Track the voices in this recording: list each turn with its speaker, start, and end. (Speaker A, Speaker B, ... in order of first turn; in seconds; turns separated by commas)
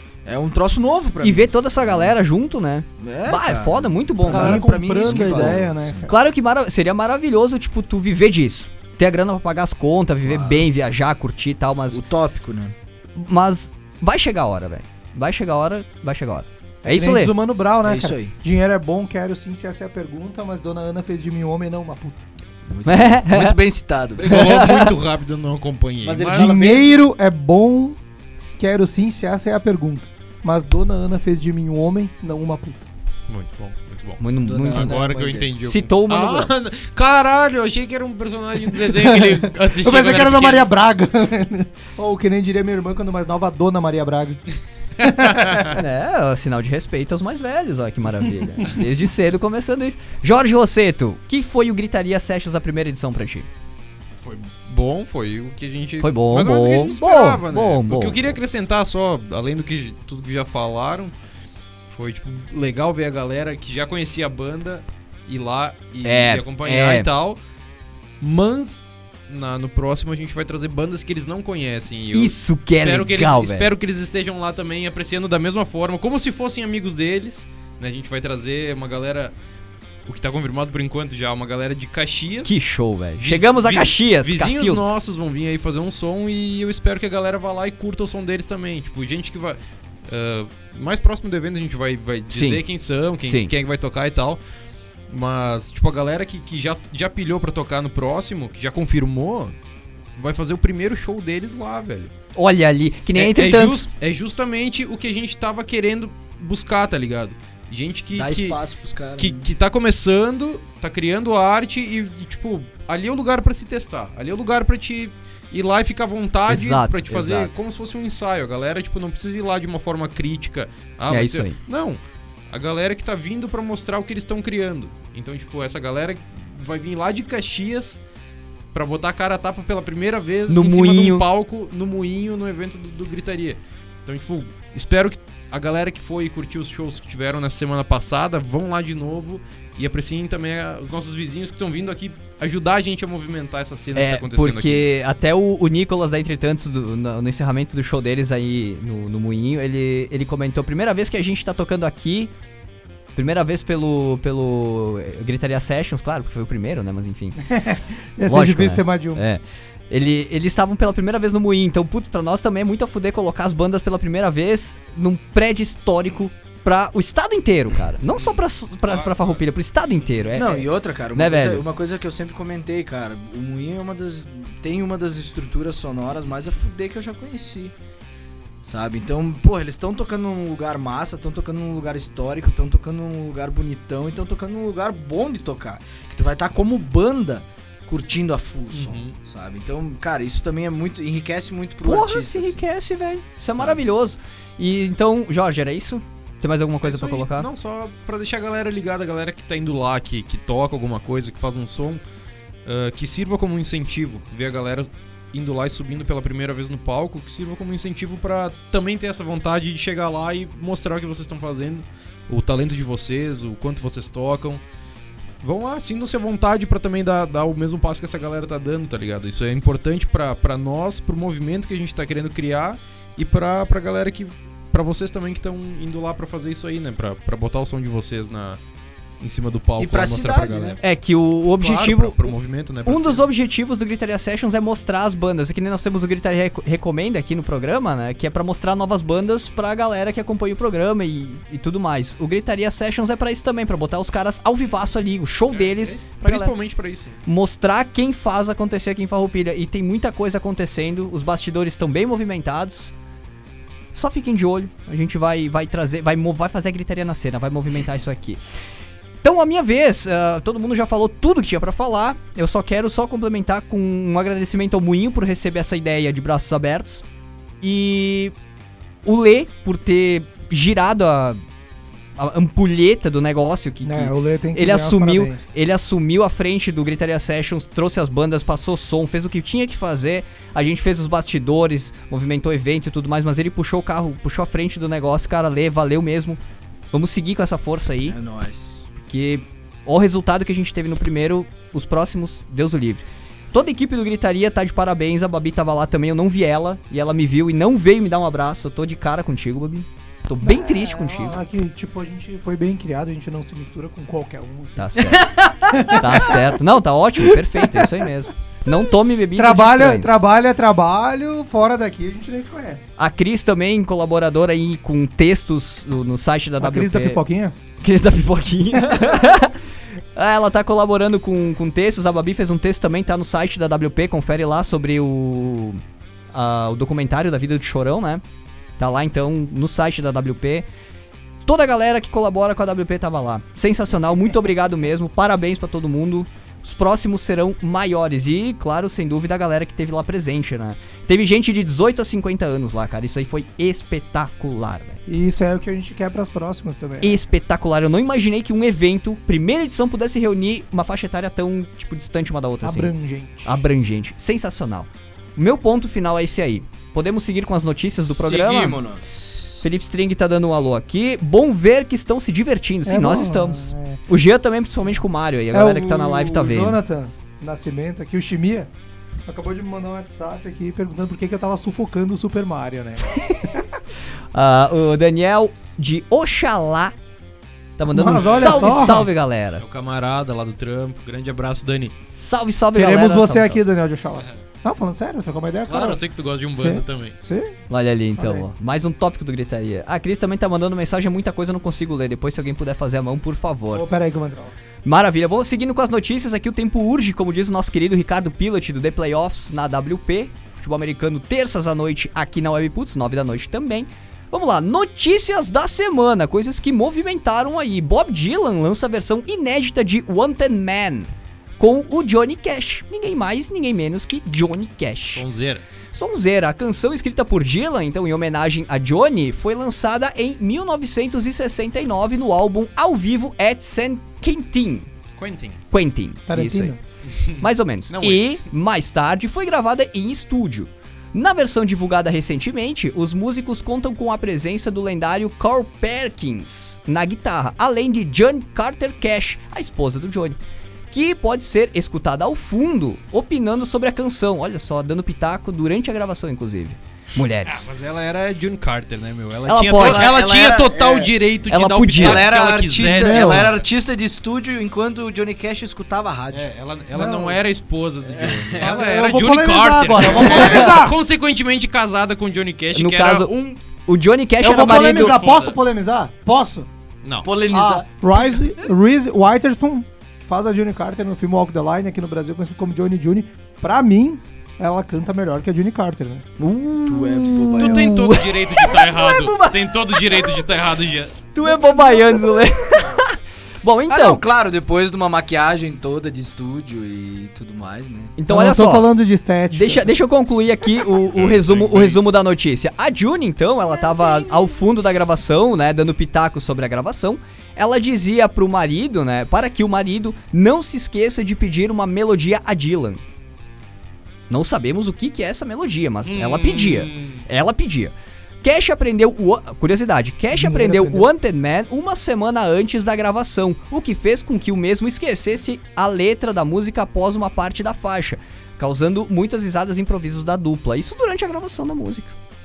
Speaker A: 0.2-2.1, Speaker B: 1.2-12.0, Speaker A: 3.0-6.1, Speaker C: 4.3-6.1, Speaker A: 10.2-10.7, Speaker A: 11.9-12.7, Speaker B: 13.2-17.3, Speaker C: 16.8-22.2, Speaker A: 17.8-18.3, Speaker A: 22.7-24.6, Speaker B: 22.9-23.6, Speaker D: 24.2-26.6, Speaker B: 24.3-24.9, Speaker A: 26.0-27.1, Speaker C: 26.3-32.9, Speaker D: 33.3-40.7, Speaker B: 34.2-35.0, Speaker A: 34.5-35.5, Speaker B: 35.6-36.5, Speaker C: 38.8-44.4, Speaker C: 45.0-45.8, Speaker D: 45.0-45.6, Speaker B: 45.7-53.5, Speaker D: 54.2-61.1, Speaker B: 56.0-58.4, Speaker D: 61.9-67.4, Speaker B: 66.0-67.1, Speaker D: 68.2-79.3, Speaker B: 72.1-73.7, Speaker D: 80.1-82.5, Speaker B: 82.5-85.0, Speaker D: 83.2-94.4, Speaker B: 92.3-92.6, Speaker B: 93.2-93.5, Speaker D: 95.1-99.5, Speaker D: 100.2-102.1, Speaker B: 102.3-103.9, Speaker D: 103.2-108.6, Speaker A: 108.1-109.5, Speaker D: 109.2-122.0, Speaker B: 116.5-117.5, Speaker B: 121.1-121.6, Speaker D: 122.5-128.0, Speaker D: 128.7-144.9, Speaker B: 130.5-131.3, Speaker B: 143.9-152.3, Speaker B: 153.2-157.4, Speaker C: 157.4-159.2, Speaker B: 158.3-171.7, Speaker D: 168.9-169.4, Speaker A: 170.3-177.7, Speaker A: 178.6-192.6, Speaker D: 188.7-189.2, Speaker B: 191.8-197.5, Speaker A: 193.5-193.8, Speaker D: 196.8-202.0, Speaker D: 202.7-214.6, Speaker D: 215.4-228.6, Speaker D: 229.2-230.8, Speaker A: 229.8-230.8, Speaker B: 230.8-232.3, Speaker D: 231.6-233.3, Speaker B: 232.8-246.6, Speaker D: 245.5-247.2, Speaker B: 247.2-252.9, Speaker B: 253.9-258.4, Speaker B: 259.2-267.0, Speaker B: 267.6-268.3, Speaker B: 269.0-271.4, Speaker B: 272.2-286.4, Speaker C: 273.8-275.4, Speaker B: 286.9-288.2, Speaker A: 288.1-288.8, Speaker B: 289.0-301.4, Speaker C: 300.4-305.1, Speaker B: 304.8-305.4, Speaker A: 305.1-305.9, Speaker C: 305.7-306.5, Speaker B: 305.9-310.2, Speaker C: 307.4-308.1, Speaker C: 309.4-312.9, Speaker B: 313.0-317.2, Speaker C: 316.6-317.6, Speaker B: 317.8-319.6, Speaker C: 318.8-319.2, Speaker B: 320.1-325.8, Speaker B: 326.3-328.2, Speaker B: 328.8-330.7, Speaker B: 331.5-345.0, Speaker C: 345.1-347.2, Speaker B: 347.0-358.8, Speaker C: 352.6-353.6, Speaker A: 358.0-359.6, Speaker B: 359.6-366.8, Speaker C: 362.9-364.0, Speaker C: 365.5-368.7, Speaker C: 369.3-373.7, Speaker B: 373.1-373.4, Speaker B: 374.3-376.9, Speaker B: 377.8-379.6, Speaker C: 377.9-379.1, Speaker D: 378.2-379.1, Speaker D: 379.6-381.9, Speaker B: 382.1-383.6, Speaker C: 382.8-386.0, Speaker D: 385.7-387.1, Speaker C: 386.6-387.6, Speaker B: 387.7-393.8, Speaker C: 388.2-388.5, Speaker C: 393.7-394.5, Speaker B: 394.9-415.2, Speaker D: 415.1-415.6, Speaker B: 415.9-424.9, Speaker D: 425.2-425.6, Speaker B: 425.7-426.8, Speaker C: 426.3-426.8, Speaker B: 427.4-440.4, Speaker D: 427.9-428.4, Speaker B: 440.9-447.7, Speaker D: 447.5-453.6, Speaker B: 449.5-450.1, Speaker A: 449.8-451.1, Speaker B: 451.5-452.3, Speaker A: 452.0-456.5, Speaker C: 452.9-453.5, Speaker D: 456.3-463.4, Speaker C: 456.9-457.4, Speaker A: 458.1-458.8, Speaker C: 458.6-461.0, Speaker B: 460.4-460.7, Speaker B: 462.7-465.2, Speaker C: 464.4-466.7, Speaker D: 464.5-465.6, Speaker D: 467.0-467.3, Speaker A: 467.2-467.9, Speaker C: 467.5-476.2, Speaker B: 476.4-480.4, Speaker A: 476.9-477.9, Speaker D: 477.6-481.2, Speaker B: 481.3-484.2, Speaker C: 481.4-482.4, Speaker A: 483.9-488.1, Speaker B: 488.2-488.9, Speaker C: 488.3-489.9, Speaker B: 489.5-503.0, Speaker D: 491.1-492.1, Speaker A: 493.8-494.5, Speaker B: 504.3-522.2, Speaker D: 506.1-507.2, Speaker C: 510.3-511.1